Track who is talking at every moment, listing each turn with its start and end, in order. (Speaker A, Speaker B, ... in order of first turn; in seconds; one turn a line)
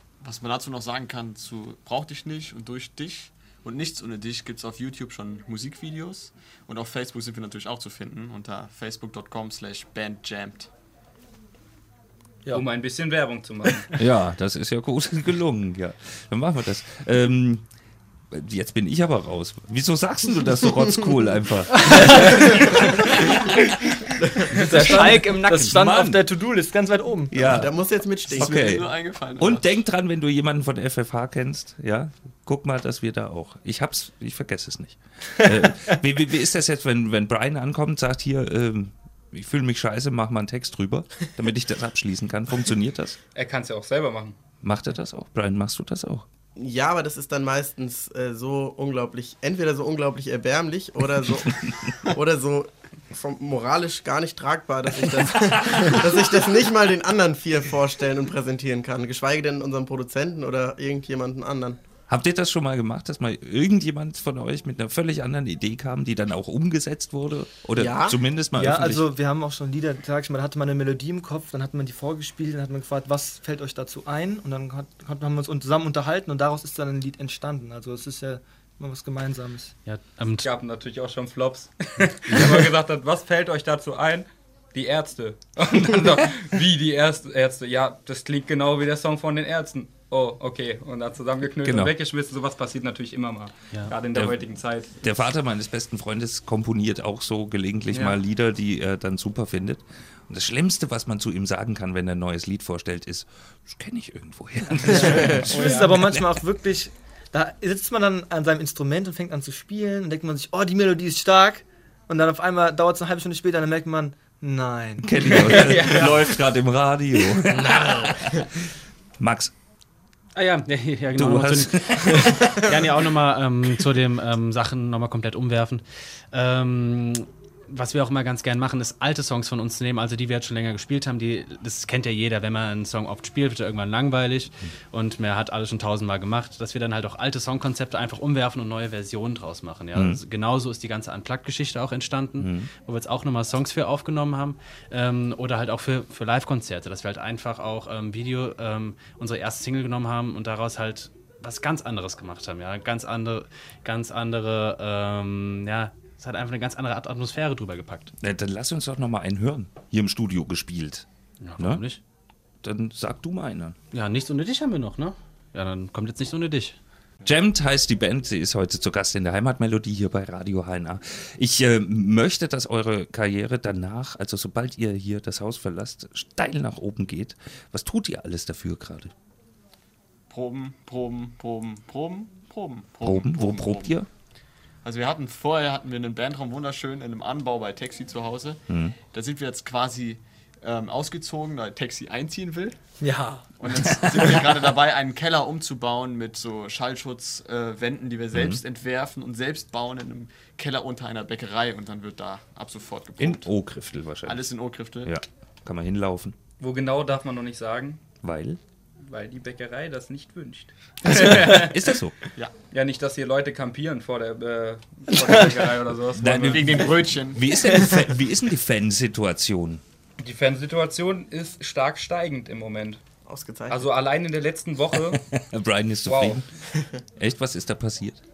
Speaker A: 0.2-10.7
Speaker B: 12.5-13.9
Speaker C: 13.9-17.6
Speaker C: 18.3-23.5
Speaker D: 24.5-27.6
Speaker C: 24.6-26.2
Speaker C: 27.3-27.7
Speaker E: 27.5-28.7
Speaker A: 28.3-29.7
Speaker C: 28.3-43.2
Speaker B: 43.3-44.4
Speaker C: 44.6-46.2
Speaker E: 46.5-61.8
Speaker C: 62.1-69.1
Speaker E: 67.8-68.2
Speaker D: 68.5-79.8
Speaker F: 79.8-80.5
Speaker B: 80.4-94.9
Speaker C: 82.3-82.6
Speaker C: 91.6-91.9
Speaker C: 95.0-106.3
Speaker D: 104.9-116.2
Speaker B: 105.5-105.9
Speaker C: 115.0-118.6
Speaker B: 115.7-116.1
Speaker F: 117.6-117.9
Speaker C: 119.2-119.5
Speaker F: 120.3-158.1
Speaker C: 121.1-122.6
Speaker C: 139.9-140.2
Speaker C: 142.4-142.7
Speaker C: 158.2-161.1
Speaker F: 161.4-162.0
Speaker C: 161.6-161.8
Speaker C: 162.6-163.8
Speaker F: 163.9-166.8
Speaker C: 167.2-179.1
Speaker A: 180.3-183.9
Speaker C: 183.0-184.1
Speaker A: 184.8-192.8
Speaker C: 188.7-188.9
Speaker D: 193.0-193.6
Speaker A: 193.6-203.5
Speaker C: 198.3-198.6
Speaker C: 203.2-204.4
Speaker A: 204.2-205.1
Speaker C: 205.0-206.3
Speaker B: 206.6-208.0
Speaker C: 208.2-208.6
Speaker B: 209.0-211.7
Speaker C: 211.0-212.2
Speaker B: 212.7-216.9
Speaker C: 216.2-219.8
Speaker A: 216.5-217.5
Speaker B: 220.2-223.0
Speaker E: 223.2-223.9
Speaker B: 223.7-225.2
Speaker C: 225.1-226.4
Speaker B: 226.1-226.4
Speaker C: 227.2-228.2